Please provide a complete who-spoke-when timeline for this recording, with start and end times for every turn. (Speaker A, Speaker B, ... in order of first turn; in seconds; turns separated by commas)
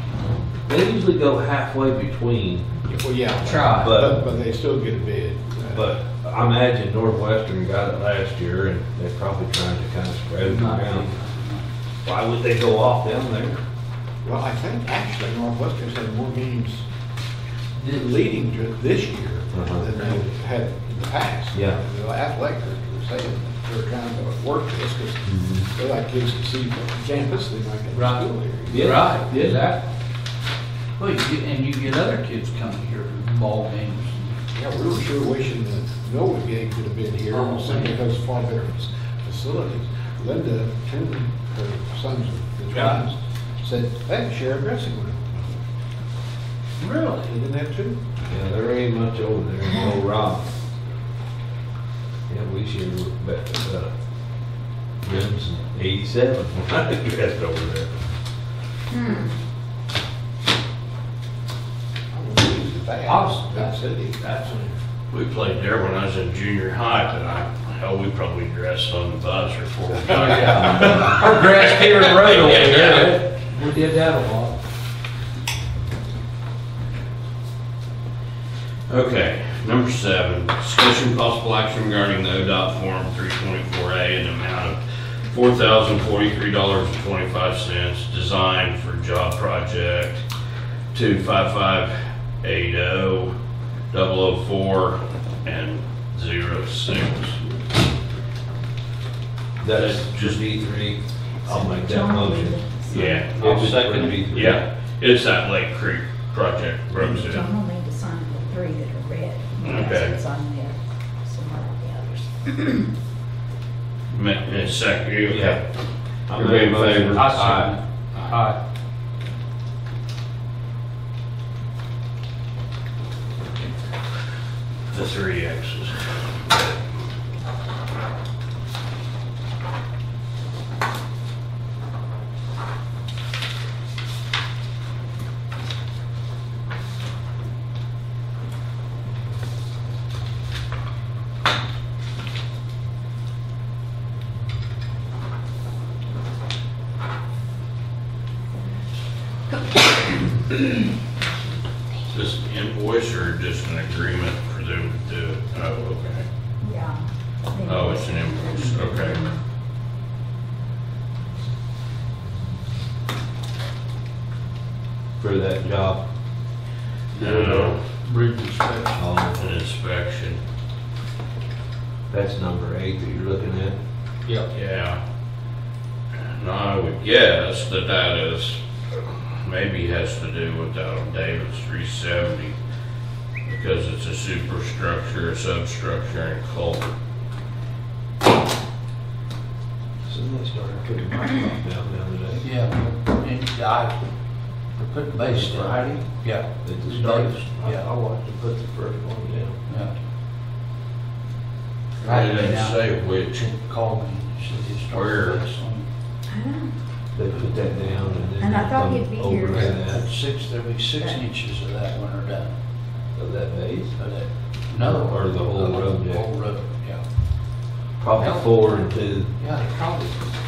Speaker A: 0.7-2.7, Speaker B: 2.9-5.9, Speaker C: 3.4-4.0, Speaker A: 3.7-4.1, Speaker A: 5.7-11.1, Speaker C: 10.4-11.7, Speaker A: 12.0-13.6, Speaker B: 14.2-16.8, Speaker C: 17.8-18.1, Speaker B: 17.8-28.9, Speaker A: 19.5-19.9, Speaker A: 21.5-21.8, Speaker A: 25.3-25.6, Speaker C: 27.9-29.9, Speaker A: 28.7-29.5, Speaker C: 31.0-34.4, Speaker B: 34.5-45.5, Speaker C: 37.3-38.0, Speaker C: 46.8-47.3, Speaker B: 47.2-48.0, Speaker A: 48.3-50.5, Speaker A: 52.3-53.9, Speaker A: 55.0-57.9, Speaker D: 58.9-59.4, Speaker B: 62.1-64.2, Speaker C: 63.0-64.7, Speaker E: 65.1-71.3, Speaker C: 70.0-74.5, Speaker E: 72.0-73.2, Speaker E: 78.9-90.2, Speaker E: 90.9-93.3, Speaker E: 93.9-97.4, Speaker A: 99.6-102.6, Speaker E: 99.7-100.4, Speaker D: 101.4-103.3, Speaker E: 102.9-103.5, Speaker C: 103.3-104.5, Speaker A: 103.4-104.6, Speaker E: 104.3-107.5, Speaker D: 107.0-112.9, Speaker E: 109.6-110.2, Speaker E: 114.1-115.7, Speaker A: 115.3-115.6, Speaker A: 116.3-117.8, Speaker E: 116.3-117.4, Speaker C: 117.1-118.6, Speaker E: 124.9-126.8, Speaker E: 152.1-156.2, Speaker D: 156.6-159.4, Speaker E: 157.6-159.3, Speaker C: 158.5-158.9, Speaker A: 165.2-166.0, Speaker E: 167.1-167.8, Speaker A: 167.2-167.7, Speaker C: 167.2-169.0, Speaker A: 168.9-169.4, Speaker E: 169.3-170.4, Speaker A: 172.1-173.8, Speaker E: 174.5-175.0, Speaker E: 176.2-182.6, Speaker E: 183.4-186.9, Speaker A: 190.0-192.5, Speaker C: 192.4-193.9, Speaker C: 194.8-197.9, Speaker A: 195.3-195.8, Speaker A: 196.6-199.6, Speaker C: 199.7-199.9, Speaker E: 202.0-203.4, Speaker C: 202.0-205.8, Speaker E: 204.9-205.4, Speaker D: 206.3-206.7, Speaker A: 207.2-210.0, Speaker D: 208.4-209.8, Speaker C: 209.5-212.5, Speaker A: 213.1-213.9, Speaker C: 213.9-217.0, Speaker A: 214.8-216.3, Speaker A: 218.0-219.3, Speaker C: 218.2-218.8, Speaker C: 219.4-220.1